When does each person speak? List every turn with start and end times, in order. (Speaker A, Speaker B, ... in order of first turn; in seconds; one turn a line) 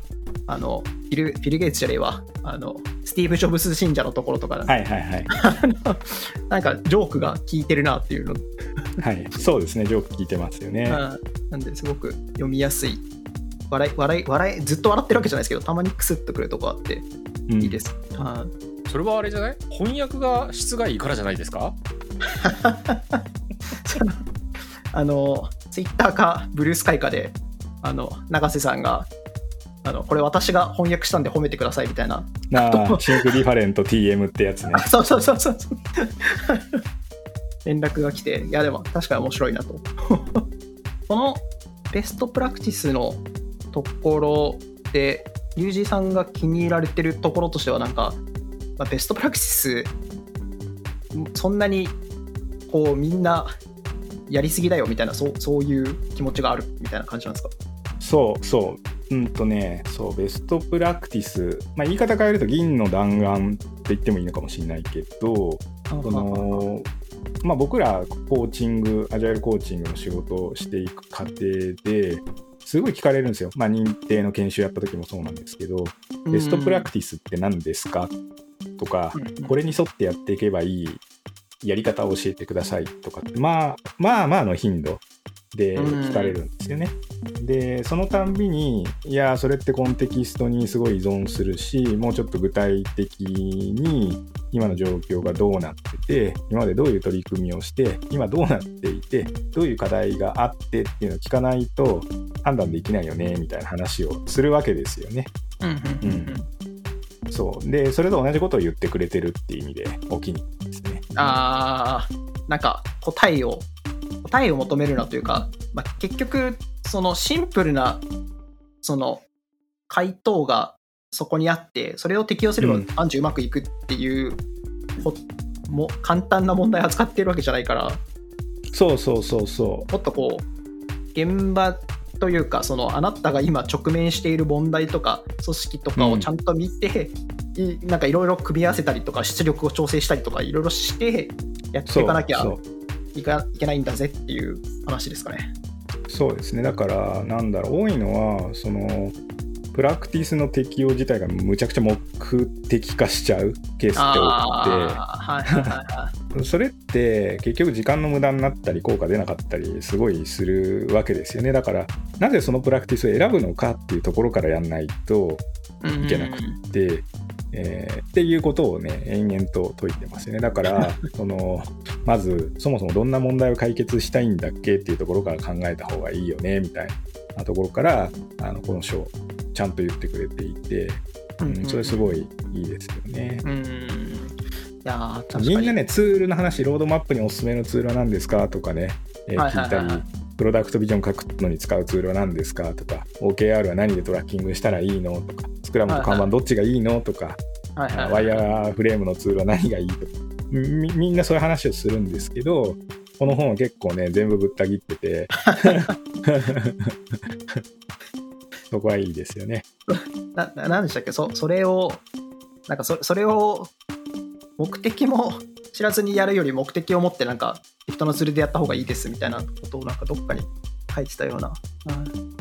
Speaker A: 0.5-4.7
Speaker B: 4.7-5.3
Speaker A: 5.3-8.4
Speaker B: 9.0-11.0
Speaker A: 10.9-13.0
Speaker A: 13.7-17.1
Speaker B: 17.5-17.8
Speaker A: 17.6-18.5
Speaker C: 18.9-21.8
Speaker A: 22.4-23.2
Speaker A: 23.8-24.2
Speaker A: 24.9-29.1
Speaker A: 29.8-33.2
Speaker B: 32.5-34.9
Speaker A: 34.7-36.8
Speaker A: 37.6-40.4
Speaker A: 41.1-48.2
Speaker A: 48.8-49.9
Speaker A: 51.1-52.0
Speaker A: 52.7-53.5
Speaker A: 54.3-57.5
Speaker B: 58.0-66.9
Speaker A: 65.9-66.7
Speaker B: 67.4-78.1
Speaker A: 76.3-76.9
Speaker B: 78.8-81.0
Speaker A: 79.1-79.5
Speaker B: 81.6-85.0
Speaker B: 85.5-105.3
Speaker A: 85.8-86.4
Speaker A: 105.6-106.5
Speaker B: 106.0-106.4
Speaker B: 107.3-111.0
Speaker A: 111.1-113.7
Speaker A: 114.2-118.0
Speaker A: 118.8-119.2
Speaker A: 119.9-124.4
Speaker B: 122.6-122.9
Speaker A: 125.0-128.0
Speaker B: 128.7-129.9
Speaker A: 129.9-130.5
Speaker A: 131.2-142.6
Speaker B: 136.0-136.3
Speaker B: 141.9-142.6
Speaker A: 143.1-145.5
Speaker B: 146.1-149.2
Speaker B: 149.7-155.7
Speaker A: 154.0-156.1
Speaker B: 156.3-165.4
Speaker A: 165.8-166.6
Speaker B: 166.0-183.4
Speaker A: 170.7-171.1
Speaker A: 181.4-182.1
Speaker A: 183.4-185.8
Speaker B: 185.3-197.4
Speaker A: 189.4-190.1
Speaker A: 195.9-196.3
Speaker A: 197.8-198.4
Speaker B: 197.9-207.6
Speaker A: 205.5-205.9
Speaker B: 208.7-209.7
Speaker A: 209.9-212.0
Speaker A: 212.7-213.7
Speaker A: 214.6-222.1